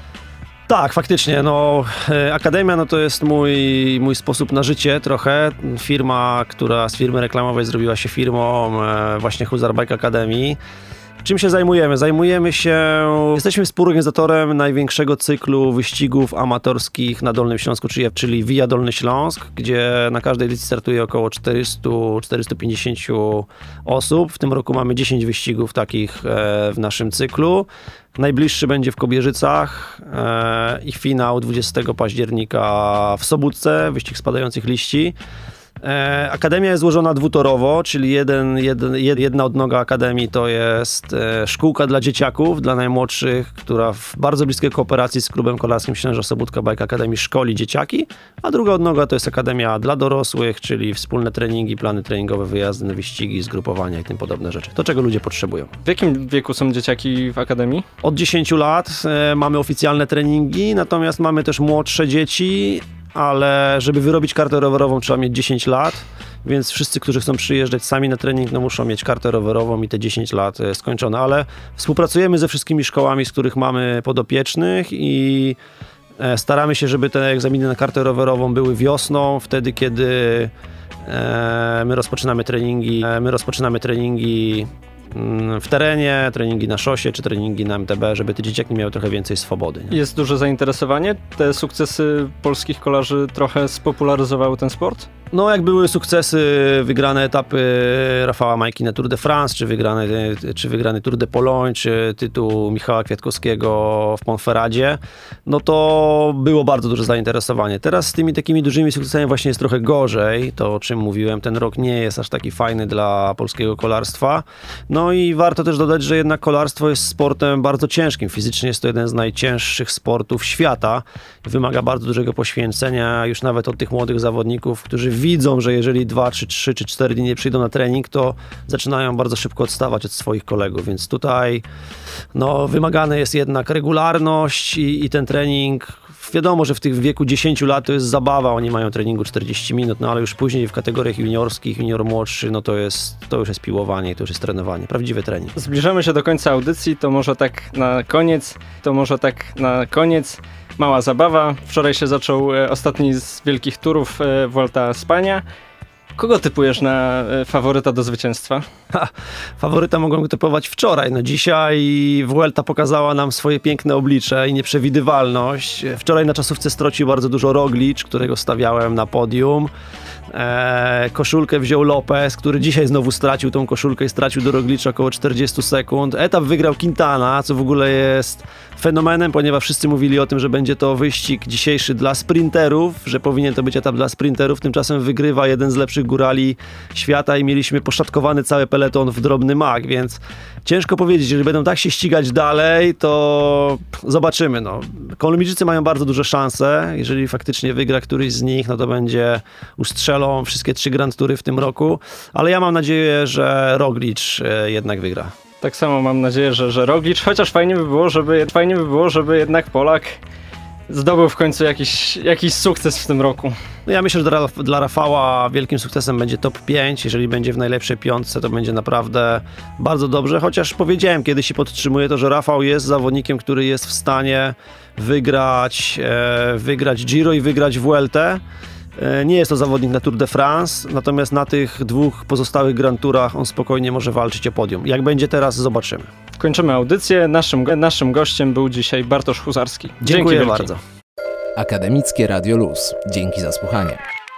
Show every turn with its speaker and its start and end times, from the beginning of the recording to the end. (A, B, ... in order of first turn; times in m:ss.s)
0:00.7-0:10.6 A
0:11.2-0:35.2 A
0:35.8-0:55.7 A
0:55.8-0:57.8 B
0:58.0-1:15.6 A
1:16.2-1:20.5 A
1:21.0-1:30.0 A
1:29.9-1:35.1 B
1:35.3-2:11.6 A
2:12.3-2:25.6 A
2:25.6-2:35.4 B
2:36.2-2:38.6 B
2:38.9-2:49.7 A
2:50.3-3:25.3 A
3:25.6-3:30.2 B
3:30.9-3:33.6 B
3:33.9-3:48.4 A
3:49.0-3:56.1 A
3:56.4-4:00.7 B
4:00.0-4:00.8 A
4:01.6-4:04.0 C